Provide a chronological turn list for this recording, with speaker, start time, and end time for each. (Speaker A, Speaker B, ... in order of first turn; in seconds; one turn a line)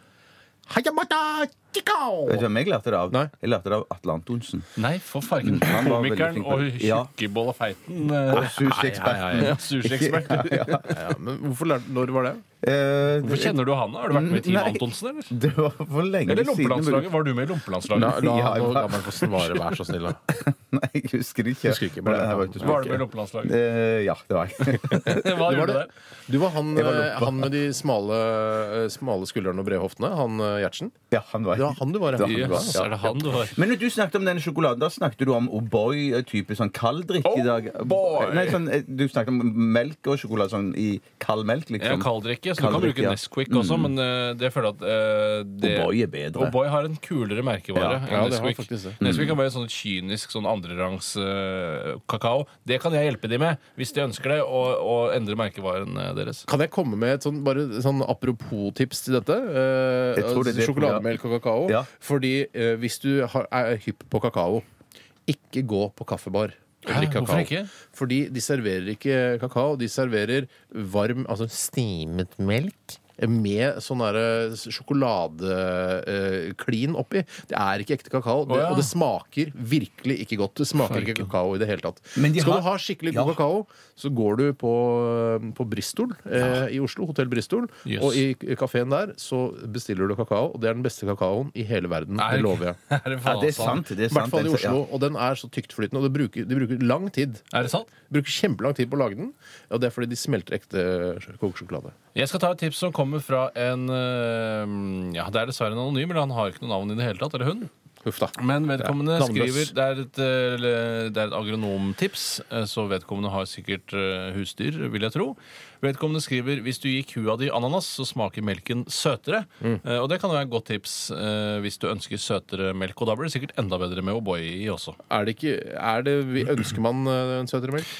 Speaker A: 0.7-2.5
Speaker B: 2.3-4.7
Speaker C: 4.8-8.7
Speaker B: 5.4-7.1
Speaker B: 8.3-10.9
Speaker A: 8.6-9.5
Speaker C: 9.3-10.9
Speaker A: 10.9-12.4
Speaker B: 12.6-13.6
Speaker C: 13.2-15.3
Speaker B: 14.1-17.1
Speaker C: 16.3-18.2
Speaker B: 17.9-19.6
Speaker A: 17.9-20.2
Speaker B: 20.3-25.4
Speaker A: 21.7-23.0
Speaker C: 22.6-23.6
Speaker C: 24.7-25.9
Speaker A: 25.3-30.9
Speaker B: 26.7-27.5
Speaker B: 31.1-43.9
Speaker A: 31.5-33.2
Speaker C: 32.2-33.6
Speaker C: 37.2-38.6
Speaker C: 41.8-56.5
Speaker B: 45.6-46.5
Speaker B: 47.7-48.0
Speaker A: 48.1-49.0
Speaker B: 49.0-49.4
Speaker A: 56.5-64.6
Speaker B: 60.2-61.9
Speaker A: 65.3-92.8
Speaker C: 66.9-67.7
Speaker C: 78.5-78.9
Speaker C: 80.8-81.3
Speaker B: 82.1-83.4
Speaker C: 87.9-88.2
Speaker C: 92.2-93.8
Speaker B: 93.2-94.8
Speaker A: 94.1-97.4
Speaker C: 97.5-97.9
Speaker A: 98.1-102.0
Speaker C: 102.1-107.7
Speaker A: 108.0-109.7
Speaker C: 108.4-125.0
Speaker A: 125.1-127.9